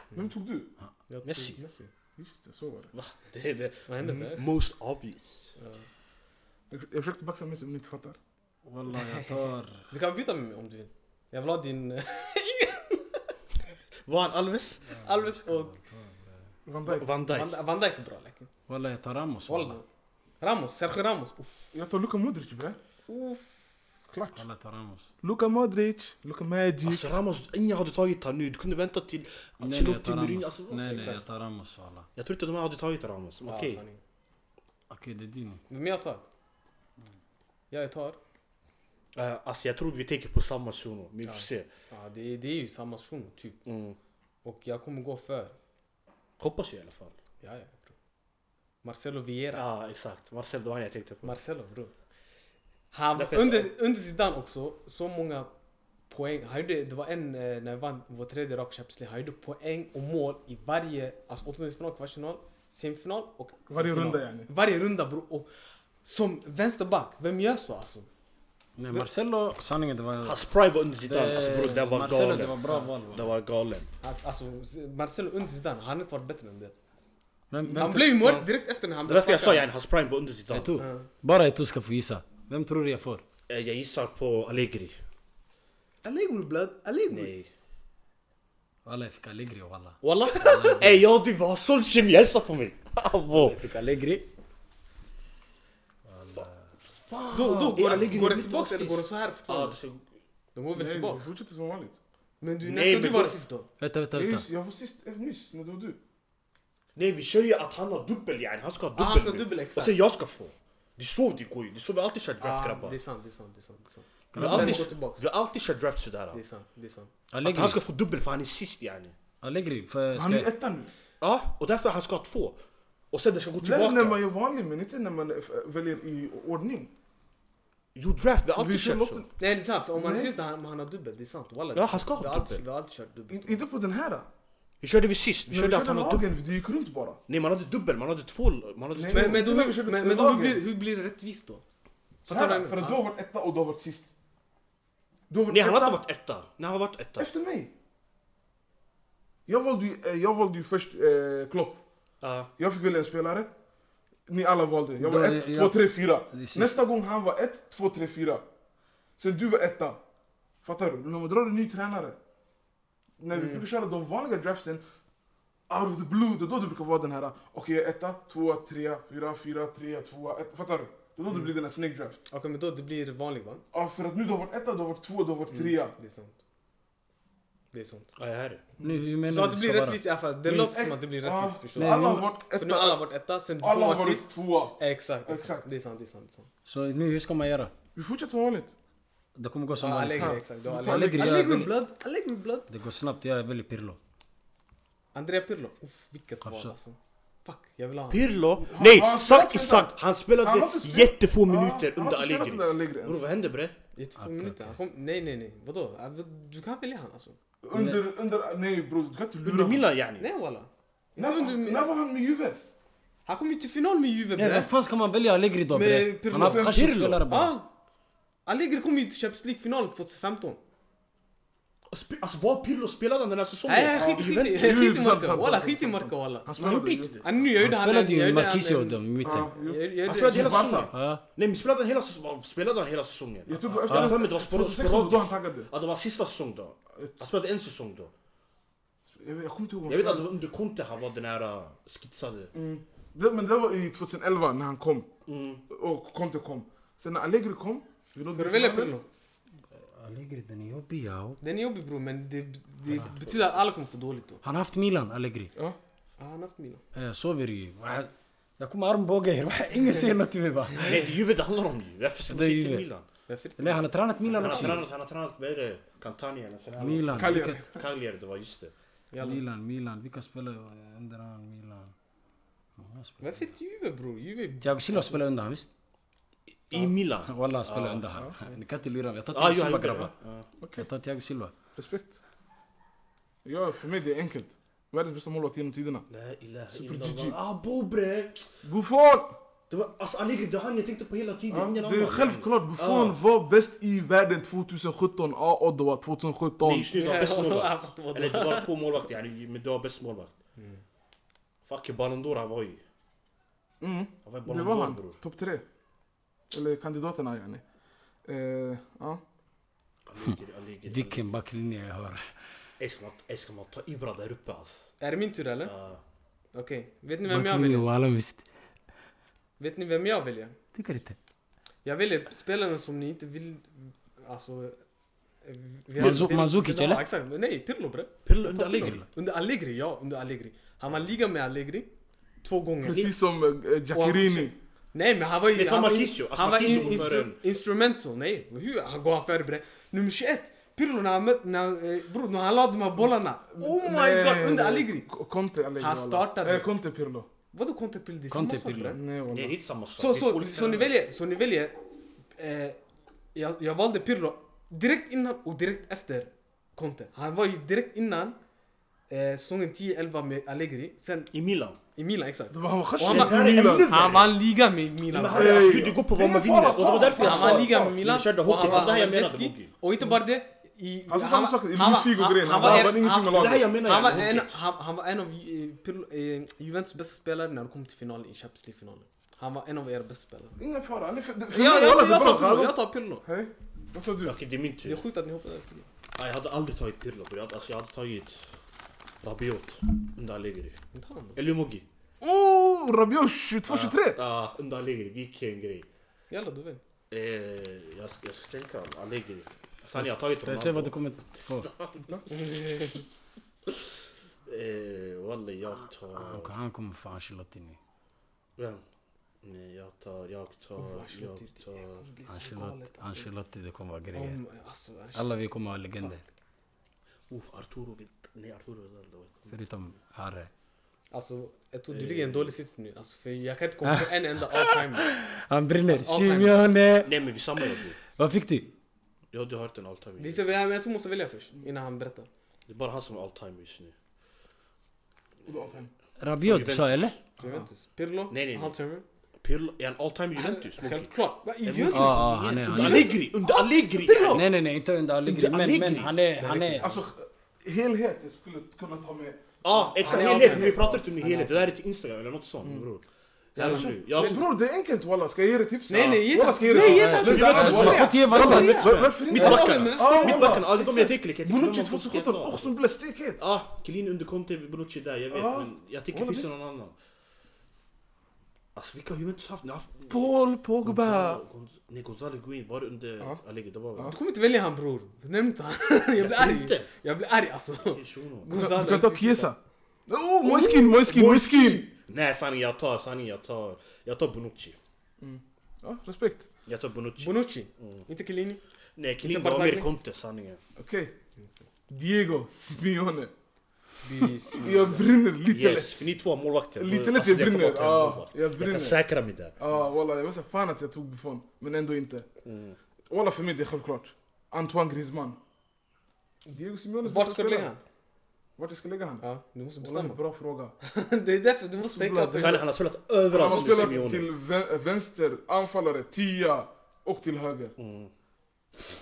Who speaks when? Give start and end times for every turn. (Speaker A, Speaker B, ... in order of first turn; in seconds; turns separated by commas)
Speaker A: 0.1-0.7, Speaker B: 1.1-1.9, Speaker C: 1.2-1.6, Speaker A: 2.2-2.9, Speaker C: 2.9-5.5, Speaker B: 3.9-4.5, Speaker B: 5.6-5.8, Speaker A: 6.7-8.2, Speaker D: 8.6-9.9, Speaker B: 8.9-9.4, Speaker B: 9.9-13.2, Speaker C: 14.1-14.8, Speaker D: 14.8-16.5, Speaker B: 14.9-15.7, Speaker A: 16.6-17.1, Speaker C: 16.8-17.6, Speaker B: 17.2-18.5, Speaker D: 18.7-19.8, Speaker B: 19.5-19.8, Speaker B: 20.4-21.7, Speaker A: 21.7-22.8, Speaker B: 23.1-23.7, Speaker A: 24.1-24.4, Speaker D: 24.4-25.1, Speaker A: 25.2-27.1, Speaker C: 26.8-31.2, Speaker D: 29.6-32.1, Speaker B: 30.8-31.2, Speaker C: 32.1-33.8, Speaker B: 33.4-34.0, Speaker D: 34.9-35.6, Speaker B: 35.7-36.2, Speaker B: 37.7-38.2, Speaker C: 39.1-41.7, Speaker B: 41.2-43.6, Speaker C: 43.6-44.0, Speaker B: 44.4-45.5, Speaker C: 46.4-47.1, Speaker B: 47.4-47.9, Speaker B: 48.8-49.6, Speaker C: 49.5-51.3, Speaker B: 51.2-51.9, Speaker B: 52.9-55.5, Speaker C: 53.1-53.7, Speaker B: 56.1-65.5, Speaker A: 63.7-64.5, Speaker B: 66.0-68.1, Speaker D: 68.8-70.4, Speaker C: 70.2-73.9, Speaker D: 71.0-73.3, Speaker B: 74.0-76.7, Speaker D: 77.5-78.2, Speaker C: 77.7-78.5, Speaker B: 77.8-79.7, Speaker C: 79.0-80.8, Speaker D: 80.5-83.2, Speaker B: 80.8-81.1, Speaker C: 83.5-85.0, Speaker B: 86.0-87.3, Speaker C: 87.1-87.5, Speaker D: 88.8-91.0, Speaker C: 90.0-93.6, Speaker D: 93.3-94.2, Speaker D: 96.1-96.5, Speaker C: 97.1-100.0, Speaker B: 97.3-99.8, Speaker B: 100.5-101.3, Speaker A: 100.7-102.0, Speaker B: 102.4-103.7, Speaker C: 102.6-103.4, Speaker D: 103.8-104.5, Speaker A: 104.1-106.0, Speaker C: 106.9-113.0, Speaker B: 108.9-110.0, Speaker B: 112.4-115.2, Speaker D: 114.3-114.9, Speaker C: 114.3-116.4, Speaker B: 116.3-117.1, Speaker D: 117.3-117.8, Speaker C: 117.4-119.1, Speaker D: 119.4-120.5, Speaker A: 120.1-120.9, Speaker C: 121.2-122.6, Speaker C: 123.1-124.2, Speaker A: 123.6-126.9, Speaker C: 127.9-129.2, Speaker A: 128.5-129.3, Speaker B: 129.4-133.6, Speaker A: 129.9-130.3, Speaker C: 131.7-132.6, Speaker A: 133.3-134.3, Speaker C: 134.8-136.3, Speaker A: 135.5-137.2, Speaker C: 137.3-139.4, Speaker A: 138.9-140.6, Speaker B: 139.1-141.6, Speaker B: 142.2-143.0, Speaker A: 142.2-144.1, Speaker A: 145.3-146.0, Speaker C: 145.5-147.3, Speaker A: 147.2-147.7, Speaker A: 149.5-151.8, Speaker C: 152.2-152.5, Speaker A: 152.6-153.5, Speaker A: 154.3-158.4, Speaker D: 155.0-156.7, Speaker A: 159.2-160.0, Speaker A: 160.6-162.2, Speaker A: 163.2-164.8, Speaker B: 163.3-163.6, Speaker A: 165.7-172.2, Speaker B: 172.3-173.6, Speaker A: 173.7-175.9, Speaker B: 175.5-176.3, Speaker B: 177.7-178.1, Speaker C: 178.2-178.6, Speaker D: 178.8-180.0, Speaker B: 179.2-186.5, Speaker A: 180.5-183.0, Speaker D: 181.8-182.3, Speaker A: 183.6-185.7, Speaker D: 186.7-187.7, Speaker A: 187.9-188.7, Speaker D: 189.3-191.8, Speaker B: 189.8-192.7, Speaker A: 190.2-191.3, Speaker D: 192.7-194.0, Speaker B: 195.1-198.2, Speaker D: 196.4-196.7, Speaker C: 198.1-203.7, Speaker A: 198.6-203.3, Speaker B: 203.9-207.4, Speaker D: 204.2-204.7, Speaker A: 207.6-209.9, Speaker D: 207.7-208.0, Speaker C: 209.4-210.2, Speaker B: 210.2-211.9, Speaker A: 211.2-212.6, Speaker B: 213.2-214.7, Speaker D: 214.3-217.5, Speaker B: 215.7-216.6, Speaker A: 216.3-217.0, Speaker C: 216.6-217.2, Speaker B: 217.3-217.7, Speaker B: 218.4-220.6, Speaker C: 221.9-224.8, Speaker B: 223.7-226.5, Speaker A: 223.9-227.1, Speaker C: 226.6-227.3, Speaker B: 227.2-230.8, Speaker D: 227.5-229.5, Speaker A: 229.2-230.9, Speaker C: 230.1-238.1, Speaker D: 230.9-231.2, Speaker A: 233.5-235.7, Speaker D: 233.9-234.2, Speaker A: 239.1-240.3, Speaker C: 239.9-242.5, Speaker A: 242.5-245.1, Speaker C: 245.2-245.6, Speaker A: 245.7-248.9, Speaker B: 248.3-249.0, Speaker D: 249.7-251.4, Speaker B: 251.4-254.4, Speaker D: 254.4-255.5, Speaker B: 256.2-256.8, Speaker D: 256.9-261.1, Speaker C: 260.8-263.1, Speaker D: 262.3-262.8, Speaker B: 263.3-264.7, Speaker D: 263.6-264.9, Speaker C: 264.3-268.7, Speaker D: 266.8-267.6, Speaker A: 267.1-267.7, Speaker B: 269.1-269.4, Speaker D: 269.2-271.9, Speaker D: 272.8-273.5, Speaker B: 273.2-275.2, Speaker D: 274.6-275.7, Speaker C: 276.7-278.0, Speaker D: 277.2-280.1, Speaker C: 279.3-280.5, Speaker A: 280.6-280.9, Speaker D: 280.8-281.5, Speaker A: 281.8-282.2, Speaker A: 283.4-286.1, Speaker C: 286.1-288.5, Speaker A: 286.7-287.4, Speaker A: 288.6-289.4, Speaker C: 289.7-293.2, Speaker A: 291.5-296.9, Speaker C: 296.6-300.3, Speaker B: 296.9-298.7, Speaker B: 300.6-300.8, Speaker C: 301.6-302.8, Speaker A: 303.8-305.6, Speaker C: 304.2-305.2, Speaker A: 306.5-307.6, Speaker A: 308.2-309.2, Speaker C: 310.1-311.2, Speaker D: 310.2-312.3, Speaker C: 312.8-314.7, Speaker B: 315.0-315.7, Speaker C: 315.6-316.0, Speaker B: 316.5-317.9, Speaker D: 317.3-318.4, Speaker B: 319.6-320.6, Speaker D: 320.7-321.2, Speaker B: 321.8-324.8, Speaker B: 325.4-331.9, Speaker D: 326.0-327.0, Speaker C: 328.2-329.1, Speaker B: 332.4-333.1, Speaker A: 332.8-334.6, Speaker B: 333.9-345.1, Speaker C: 335.5-337.4, Speaker A: 343.5-347.3, Speaker B: 345.8-346.7, Speaker B: 347.5-349.0, Speaker D: 348.3-349.0, Speaker A: 348.9-349.5, Speaker C: 349.3-350.9, Speaker B: 349.9-351.8, Speaker B: 352.4-352.8, Speaker B: 353.3-358.4, Speaker B: 359.1-361.3, Speaker C: 361.3-361.8, Speaker B: 361.9-365.8, Speaker A: 362.5-363.9, Speaker C: 363.0-364.4, Speaker C: 365.1-369.7, Speaker A: 365.3-368.0, Speaker B: 367.2-380.6, Speaker A: 371.1-373.7, Speaker C: 372.5-374.6, Speaker A: 380.6-384.4, Speaker B: 381.5-383.2, Speaker C: 384.2-385.0, Speaker B: 384.8-385.9, Speaker C: 386.1-388.5, Speaker C: 389.2-390.8, Speaker B: 390.9-391.4, Speaker C: 391.4-391.9, Speaker A: 392.2-394.2, Speaker C: 393.7-395.9, Speaker B: 396.3-396.8, Speaker C: 397.1-402.1, Speaker D: 399.9-401.7, Speaker B: 402.2-403.0, Speaker C: 404.4-406.5, Speaker D: 406.1-407.8, Speaker C: 408.6-408.8, Speaker C: 409.4-412.0, Speaker B: 410.8-413.3, Speaker D: 412.3-414.4, Speaker B: 414.1-415.3, Speaker D: 415.1-416.2, Speaker C: 417.3-419.6, Speaker D: 419.5-420.5, Speaker B: 421.1-425.1, Speaker C: 421.9-422.5, Speaker D: 423.8-428.7, Speaker B: 425.8-426.6, Speaker C: 427.0-428.0, Speaker C: 429.3-430.7, Speaker B: 430.2-432.3, Speaker C: 432.7-433.9, Speaker A: 435.4-435.9, Speaker D: 436.2-437.1, Speaker C: 436.4-437.2, Speaker A: 437.4-437.6, Speaker B: 437.4-439.0, Speaker C: 438.3-438.7, Speaker C: 439.4-441.1, Speaker B: 440.3-444.4, Speaker C: 441.6-444.4, Speaker D: 441.9-443.2, Speaker D: 444.3-446.9, Speaker C: 445.2-446.2, Speaker B: 446.4-446.8, Speaker A: 446.8-451.0, Speaker C: 449.6-453.0, Speaker B: 450.0-451.7, Speaker B: 453.6-454.4, Speaker C: 453.6-454.4, Speaker A: 453.6-463.4, Speaker B: 455.9-460.7, Speaker C: 455.9-456.2, Speaker D: 456.7-459.0, Speaker C: 457.2-462.7, Speaker C: 463.4-466.9, Speaker A: 465.3-466.5, Speaker C: 468.7-470.2, Speaker A: 470.1-471.4, Speaker C: 470.8-474.1, Speaker B: 474.0-479.5, Speaker C: 476.2-476.9, Speaker C: 477.8-478.6, Speaker A: 478.5-481.9, Speaker C: 480.4-484.8, Speaker A: 485.2-486.5, Speaker C: 486.6-488.1, Speaker B: 487.2-488.6, Speaker C: 488.9-490.6, Speaker B: 489.2-489.9, Speaker A: 490.8-491.1, Speaker A: 491.9-493.3, Speaker B: 494.0-495.0, Speaker A: 494.2-496.1, Speaker C: 495.4-499.5, Speaker A: 496.8-499.0, Speaker A: 499.6-502.3, Speaker C: 502.4-502.8, Speaker A: 503.1-505.4, Speaker A: 506.5-507.7, Speaker B: 507.0-507.8, Speaker A: 508.6-509.2, Speaker B: 509.2-510.2, Speaker A: 509.8-510.7, Speaker B: 510.8-512.6, Speaker A: 511.8-512.6, Speaker C: 512.4-514.3, Speaker A: 513.3-517.7, Speaker B: 513.4-514.0, Speaker C: 517.8-518.1